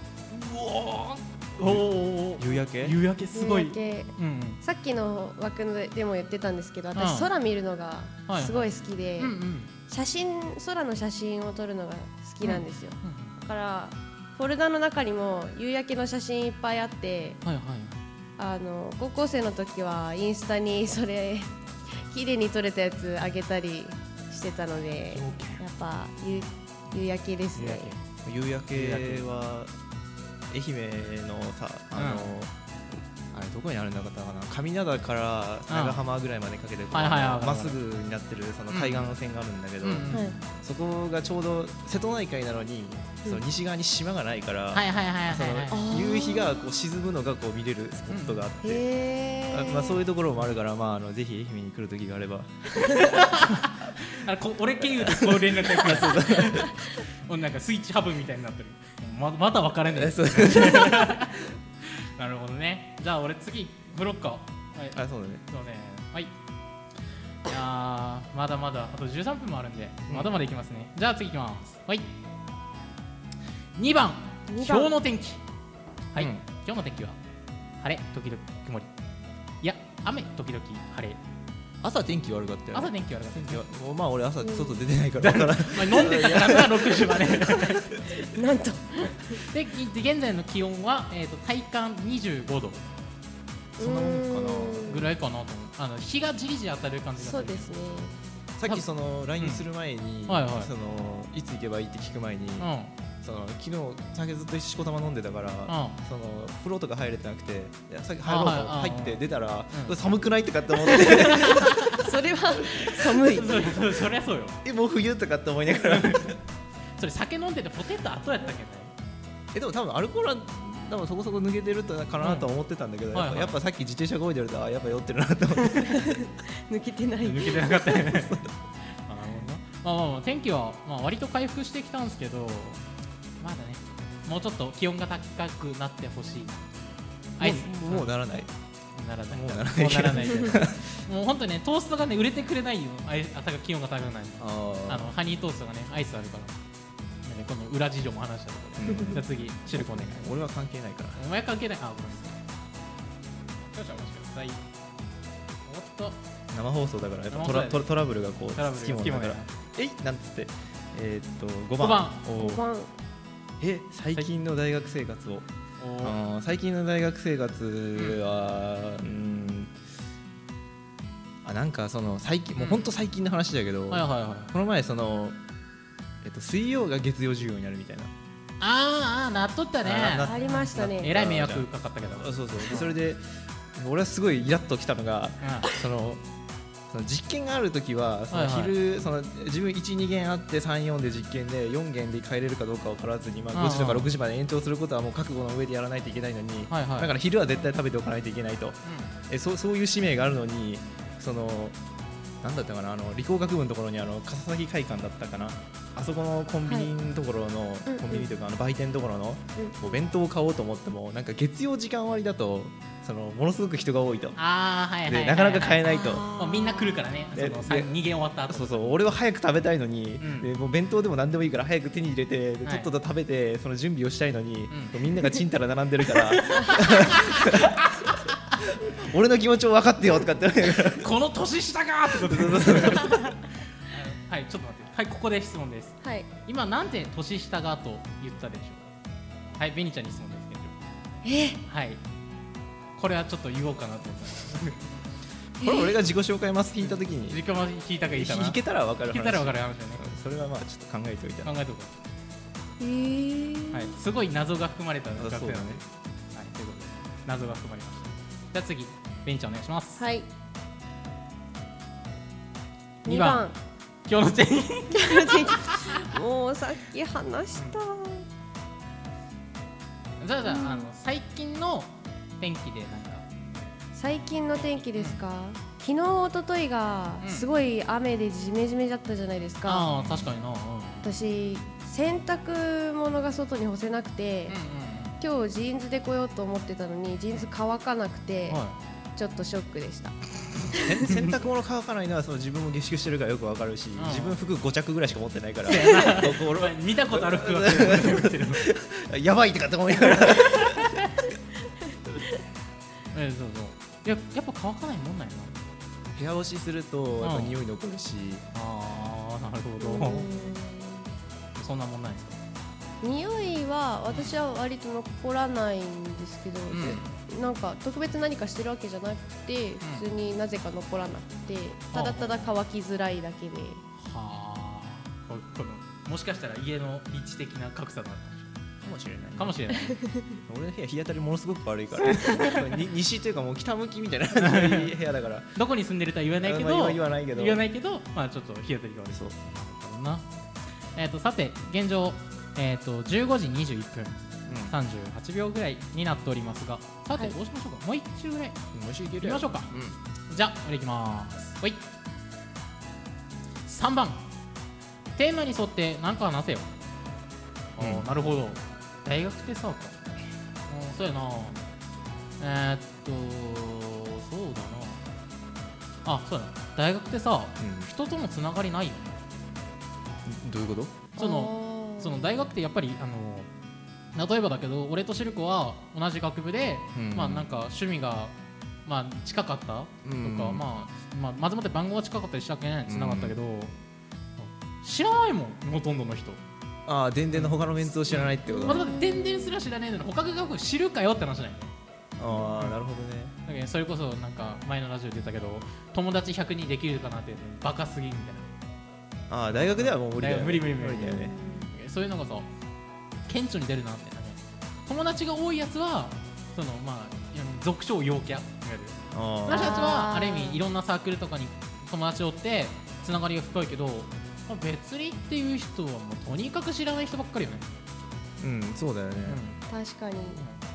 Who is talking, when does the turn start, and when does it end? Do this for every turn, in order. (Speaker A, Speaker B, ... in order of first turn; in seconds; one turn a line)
Speaker A: 0.3-4.6
Speaker B: 1.6-1.9
Speaker B: 2.4-3.0
Speaker C: 3.3-9.3
Speaker A: 6.9-7.3
Speaker A: 8.3-9.7
Speaker C: 9.9-17.4
Speaker A: 12.4-13.3
Speaker A: 17.4-18.0
Speaker C: 18.4-27.9
Speaker A: 25.1-25.6
Speaker A: 27.5-28.0
Speaker B: 28.2-29.7
Speaker A: 28.7-29.3
Speaker B: 30.5-32.5
Speaker A: 31.9-32.3
Speaker B: 33.3-48.8
Speaker A: 35.7-36.0
Speaker A: 36.9-37.8
Speaker A: 38.7-39.1
Speaker A: 39.8-40.4
Speaker A: 44.7-45.8
Speaker C: 45.7-46.6
Speaker A: 48.1-48.5
Speaker C: 48.6-50.0
Speaker B: 49.5-53.6
Speaker A: 52.8-66.3
Speaker B: 54.9-56.8
Speaker B: 59.9-61.4
Speaker B: 64.9-65.4
Speaker A: 67.5-72.1
Speaker A: 73.8-75.4
Speaker C: 74.5-74.9
Speaker A: 76.1-77.2
Speaker B: 76.2-76.4
Speaker A: 77.8-78.9
Speaker A: 79.6-81.2
Speaker B: 81.8-88.0
Speaker A: 82.7-83.6
Speaker C: 84.4-84.8
Speaker A: 85.2-87.9
Speaker C: 88.1-89.4
Speaker A: 89.3-92.8
Speaker B: 93.8-95.0
Speaker C: 93.8-95.1
Speaker A: 94.9-97.7
Speaker C: 97.2-98.2
Speaker B: 98.6-102.7
Speaker A: 100.3-100.7
Speaker A: 102.6-102.9
Speaker B: 103.2-112.0
Speaker A: 105.7-106.0
Speaker A: 108.2-110.0
Speaker C: 110.8-113.8
Speaker A: 110.9-112.0
Speaker A: 112.9-114.6
Speaker B: 114.6-116.4
Speaker A: 115.7-116.4
Speaker A: 117.0-118.9
Speaker B: 119.5-126.3
Speaker A: 122.2-122.5
Speaker A: 123.1-123.6
Speaker C: 125.7-127.9
Speaker A: 127.2-128.3
Speaker B: 127.8-128.5
Speaker A: 128.9-132.8
Speaker A: 133.4-136.7
Speaker A: 137.4-138.1
Speaker B: 137.4-138.5
Speaker A: 138.9-146.6
Speaker B: 139.3-141.0
Speaker B: 144.4-145.1
Speaker A: 147.2-150.2
Speaker B: 148.8-149.2
Speaker B: 149.7-151.2
Speaker A: 151.2-152.4
Speaker A: 153.7-154.6
Speaker A: 155.7-156.2
Speaker B: 156.5-162.6
Speaker A: 157.3-157.9
Speaker A: 158.5-159.5
Speaker A: 161.8-162.2
Speaker C: 162.3-162.9
Speaker B: 163.6-165.5
Speaker A: 165.8-166.2
Speaker B: 166.0-169.8
Speaker B: 171.4-175.4
Speaker A: 172.6-172.8
Speaker A: 173.9-174.5
Speaker B: 176.2-178.1
Speaker A: 178.6-182.9
Speaker B: 179.8-186.2
Speaker C: 180.2-181.1
Speaker A: 185.4-185.7
Speaker B: 186.9-201.8
Speaker A: 188.3-188.7
Speaker A: 193.5-194.1
Speaker A: 196.7-197.1
Speaker A: 198.8-199.1
Speaker B: 202.4-214.4
Speaker C: 207.9-208.2
Speaker C: 209.6-209.8
Speaker A: 214.3-219.0
Speaker B: 215.0-216.3
Speaker C: 215.8-217.1
Speaker B: 217.3-217.9
Speaker B: 218.5-228.1
Speaker A: 220.2-220.5
Speaker A: 222.6-222.9
Speaker A: 224.7-225.3
Speaker A: 226.1-228.6
Speaker B: 228.6-231.1
Speaker A: 230.9-238.8
Speaker B: 232.1-233.3
Speaker C: 236.0-236.3
Speaker A: 239.6-240.8
Speaker C: 241.2-241.6
Speaker A: 241.6-242.0
Speaker A: 243.0-245.0
Speaker C: 245.6-246.0
Speaker B: 245.6-247.4
Speaker A: 246.8-248.6
Speaker B: 248.2-251.5
Speaker A: 249.1-250.0
Speaker A: 251.4-251.9
Speaker C: 252.8-253.9
Speaker A: 253.7-260.0
Speaker B: 255.2-255.8
Speaker C: 260.0-260.2
Speaker C: 263.0-263.6
Speaker A: 263.1-263.5
Speaker A: 264.1-265.9
Speaker C: 264.9-268.2
Speaker A: 267.5-267.8
Speaker A: 270.2-273.2
Speaker C: 270.4-270.9
Speaker C: 273.9-279.9
Speaker A: 274.9-275.2
Speaker A: 277.2-277.5
Speaker A: 279.6-281.0
Speaker B: 280.0-280.3
Speaker C: 281.0-284.6
Speaker A: 284.5-285.2
Speaker C: 285.2-288.6
Speaker A: 288.5-288.8
Speaker C: 289.1-291.1
Speaker B: 290.7-301.0
Speaker A: 293.9-294.4
Speaker A: 295.6-298.6
Speaker A: 300.6-301.2
Speaker A: 303.1-305.6
Speaker B: 306.1-308.4
Speaker A: 307.2-307.5
Speaker A: 308.5-310.3
Speaker C: 309.8-311.1
Speaker A: 311.5-312.4
Speaker C: 313.0-323.8
Speaker A: 316.7-317.1
Speaker A: 321.9-322.5
Speaker A: 324.0-328.5
Speaker B: 328.8-329.6
Speaker A: 329.4-330.0
Speaker C: 329.9-330.3
Speaker B: 330.4-335.5
Speaker A: 332.1-332.7
Speaker A: 334.4-334.9
Speaker A: 335.5-340.3
Speaker B: 336.4-337.6
Speaker A: 340.9-348.6
Speaker B: 344.5-344.7
Speaker B: 348.7-350.0
Speaker A: 349.2-349.7
Speaker A: 350.3-351.8
Speaker A: 353.6-354.2
Speaker A: 355.1-356.7
Speaker A: 357.8-360.0
Speaker B: 357.8-358.0
Speaker A: 360.7-361.6
Speaker A: 362.4-365.0
Speaker A: 366.0-369.2
Speaker B: 367.6-367.9
Speaker B: 370.2-371.0
Speaker A: 371.1-373.5
Speaker C: 371.2-372.5
Speaker A: 374.1-378.3
Speaker B: 376.9-377.5
Speaker A: 378.9-383.7
Speaker B: 380.0-380.6
Speaker B: 382.9-383.4
Speaker A: 384.4-386.4
Speaker B: 386.9-388.8
Speaker A: 387.3-391.7
Speaker C: 388.4-389.6
Speaker B: 392.2-393.3
Speaker A: 392.5-392.8
Speaker A: 393.4-398.5
Speaker B: 399.3-401.3
Speaker A: 399.5-402.5
Speaker C: 401.0-401.7
Speaker A: 403.2-417.7
Speaker B: 409.1-409.9
Speaker C: 409.5-410.6
Speaker B: 418.4-419.4
Speaker A: 419.2-419.6
Speaker C: 419.7-420.4